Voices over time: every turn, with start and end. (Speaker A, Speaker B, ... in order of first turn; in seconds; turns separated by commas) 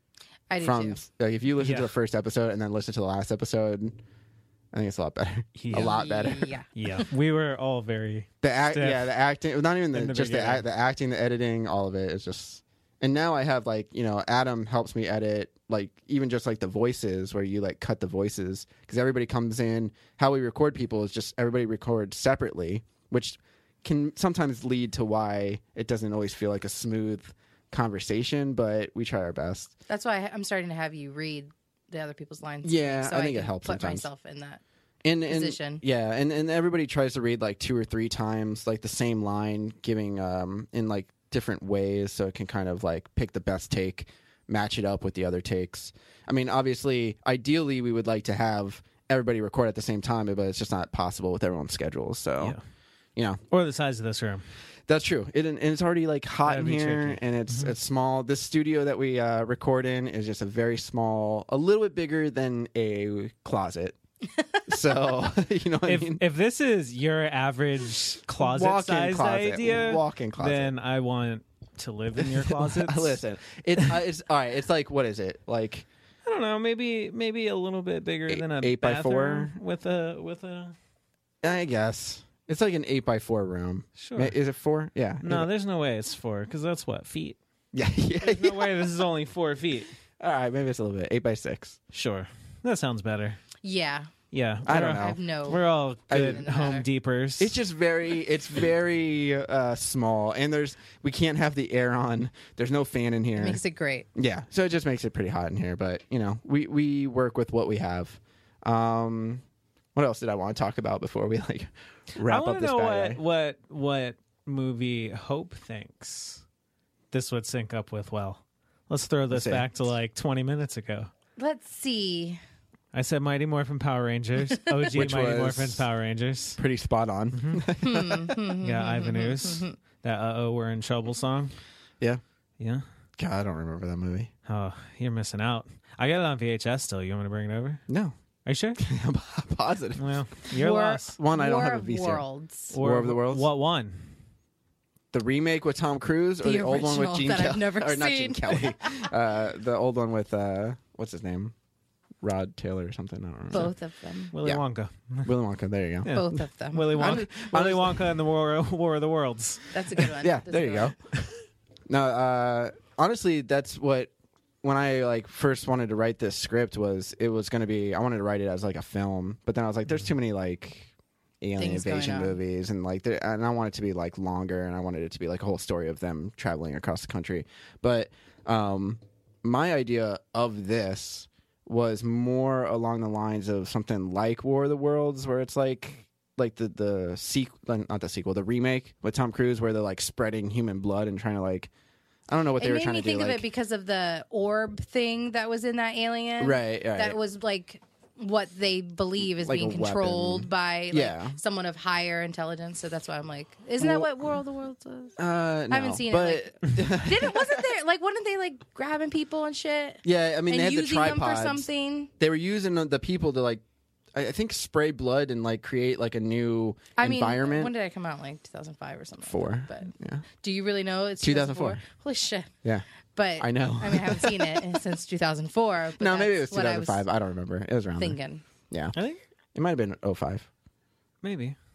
Speaker A: 0.5-1.0, Speaker B: 0.6-4.0, Speaker C: 1.6-1.9, Speaker B: 4.7-6.5, Speaker C: 5.6-6.0, Speaker A: 5.7-6.7, Speaker C: 6.7-9.1, Speaker B: 8.4-29.7, Speaker C: 9.9-10.6, Speaker A: 29.9-34.6, Speaker B: 32.6-34.1, Speaker B: 35.0-52.6, Speaker A: 35.3-35.8, Speaker B: 53.2-53.4, Speaker C: 53.5-54.5, Speaker B: 54.9-64.0, Speaker C: 56.5-57.7, Speaker B: 64.7-66.2, Speaker C: 65.8-73.2, Speaker B: 68.4-70.7, Speaker B: 72.2-75.9, Speaker C: 76.2-80.8, Speaker B: 78.3-79.5, Speaker B: 81.4-85.5, Speaker C: 84.0-84.3, Speaker C: 85.2-87.4, Speaker B: 87.7-88.7, Speaker C: 88.2-89.9, Speaker B: 90.2-91.8, Speaker C: 91.9-93.4, Speaker A: 93.6-94.1, Speaker C: 94.3-97.6, Speaker B: 94.7-95.2, Speaker A: 94.9-96.8, Speaker B: 96.1-96.5, Speaker B: 97.4-103.6, Speaker A: 103.4-104.1, Speaker B: 104.2-109.4, Speaker B: 110.0-113.2, Speaker C: 112.3-116.4, Speaker C: 117.1-121.1, Speaker B: 119.3-119.7, Speaker A: 121.4-122.4, Speaker C: 122.9-126.6, Speaker B: 124.9-125.8, Speaker B: 126.6-128.4, Speaker C: 127.3-127.6, Speaker A: 127.8-129.8, Speaker C: 128.6-131.5, Speaker C: 132.6-132.8, Speaker B: 133.2-134.3, Speaker C: 134.5-137.8, Speaker B: 137.9-138.2, Speaker C: 138.5-138.8, Speaker B: 138.8-140.1, Speaker C: 140.0-141.2, Speaker A: 140.5-142.7, Speaker B: 141.1-143.5, Speaker C: 142.7-144.1, Speaker B: 145.1-151.5, Speaker A: 146.4-149.1, Speaker B: 152.2-153.7, Speaker A: 153.5-154.3, Speaker C: 154.3-155.3, Speaker B: 155.2-156.2, Speaker C: 156.0-159.7, Speaker A: 156.1-157.3, Speaker B: 156.9-158.1, Speaker A: 159.7-160.9, Speaker B: 160.2-161.1, Speaker B: 161.9-164.1, Speaker B: 164.6-191.7, Speaker A: 171.6-172.4, Speaker B: 192.3-193.4, Speaker A: 192.6-205.2, Speaker B: 196.4-197.2, Speaker B: 199.2-201.4, Speaker B: 203.8-204.1, Speaker B: 205.2-207.7, Speaker A: 205.7-212.1, Speaker B: 210.0-211.7, Speaker B: 212.2-213.6, Speaker B: 214.1-217.7, Speaker A: 217.0-222.5, Speaker B: 219.2-220.2, Speaker B: 221.2-221.8, Speaker A: 223.2-227.0, Speaker B: 223.4-224.7, Speaker B: 226.0-228.2, Speaker A: 228.0-228.4, Speaker B: 228.7-229.0, Speaker C: 228.9-229.2, Speaker B: 229.6-230.5, Speaker C: 231.2-231.6